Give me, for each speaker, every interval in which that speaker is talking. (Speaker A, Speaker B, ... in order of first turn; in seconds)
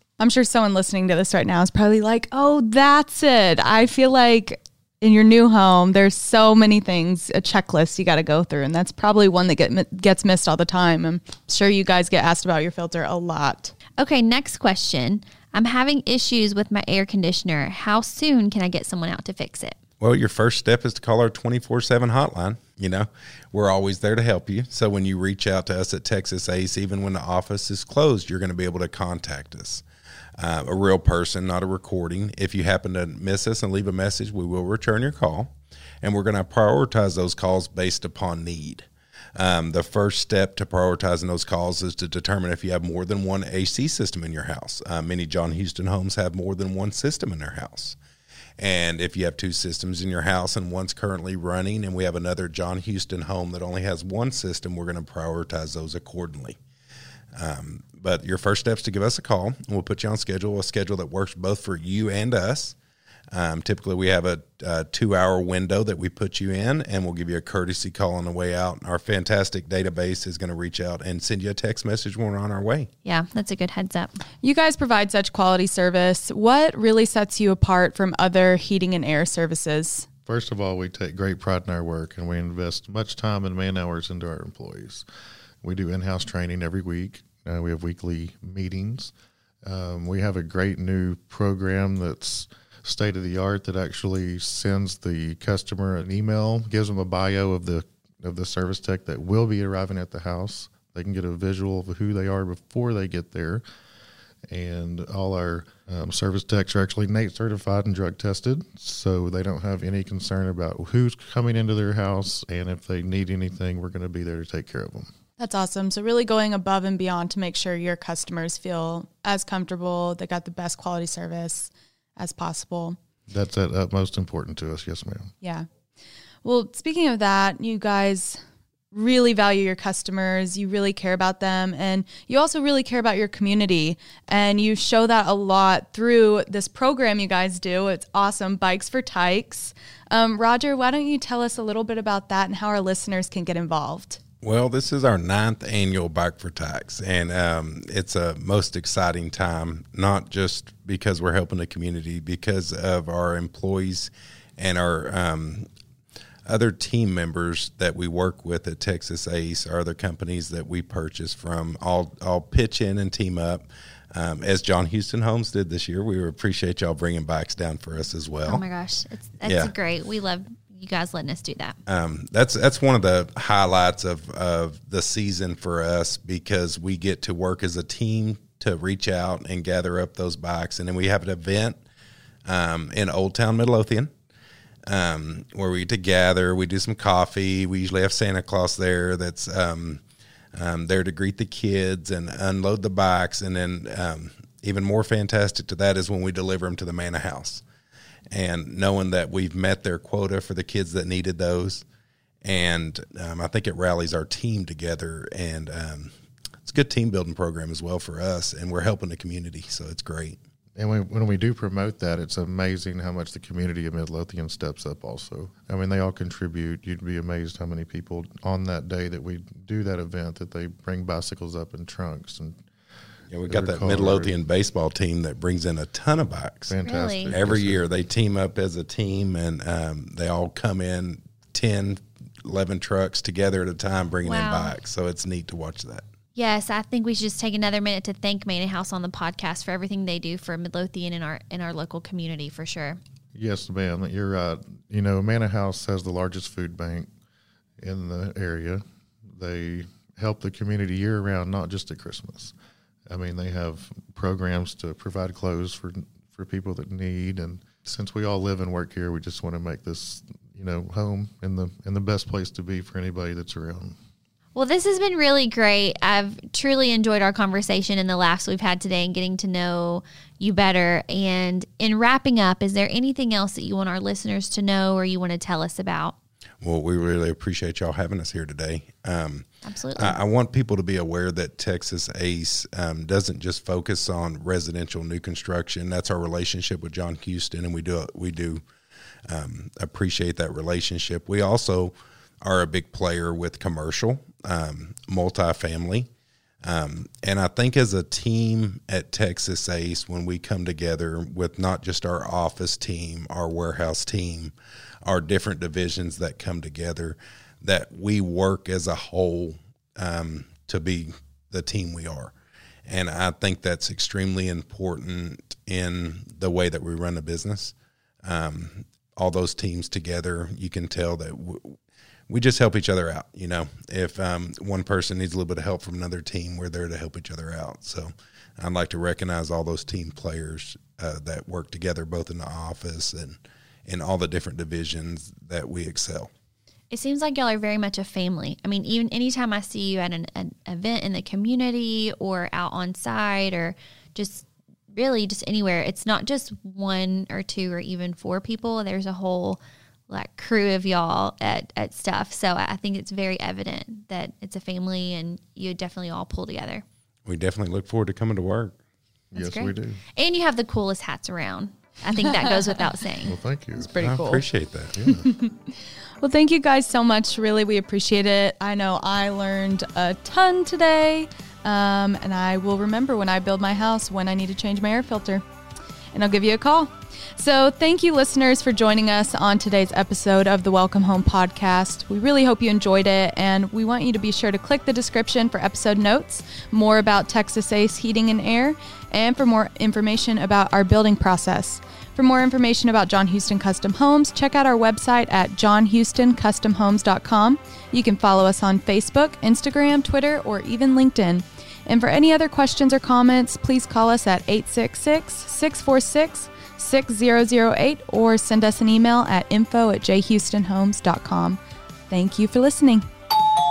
Speaker A: 0.2-13.7, 74.4-80.1, 115.4-123.0, 125.4-125.7, 126.4-128.4, 128.9-144.2, 363.8-364.4, 365.2-375.4, 376.1-411.6, 412.1-413.1
Speaker B: 14.0-19.8, 73.0-74.2, 168.4-171.8, 226.8-227.3, 234.2-234.7, 236.3-243.0, 264.5-276.1, 279.6-280.2, 336.9-356.8, 359.3-363.3
Speaker C: 20.0-29.8, 30.4-48.0, 48.6-56.6, 57.4-62.8, 63.3-72.9, 144.4-155.7, 156.5-168.6, 169.4-169.7, 171.9-181.8, 182.4-184.1, 184.9-190.0, 190.5-197.6, 198.3-201.8, 202.4-206.1, 206.6-210.4, 223.3-226.7, 227.3-236.0, 276.6-288.6, 289.3-296.1, 296.6-304.5, 305.0-312.3, 312.9-321.8, 322.3-336.3, 357.2-358.7, 364.0-365.1
Speaker D: 80.2-85.0, 85.6-89.1, 89.6-103.6, 104.5-115.1, 123.3-125.3, 210.8-222.6, 223.5-224.3, 226.7-227.8, 243.3-247.1, 247.8-252.5, 253.1-264.0, 359.3-360.0, 363.2-363.9, 364.9-365.3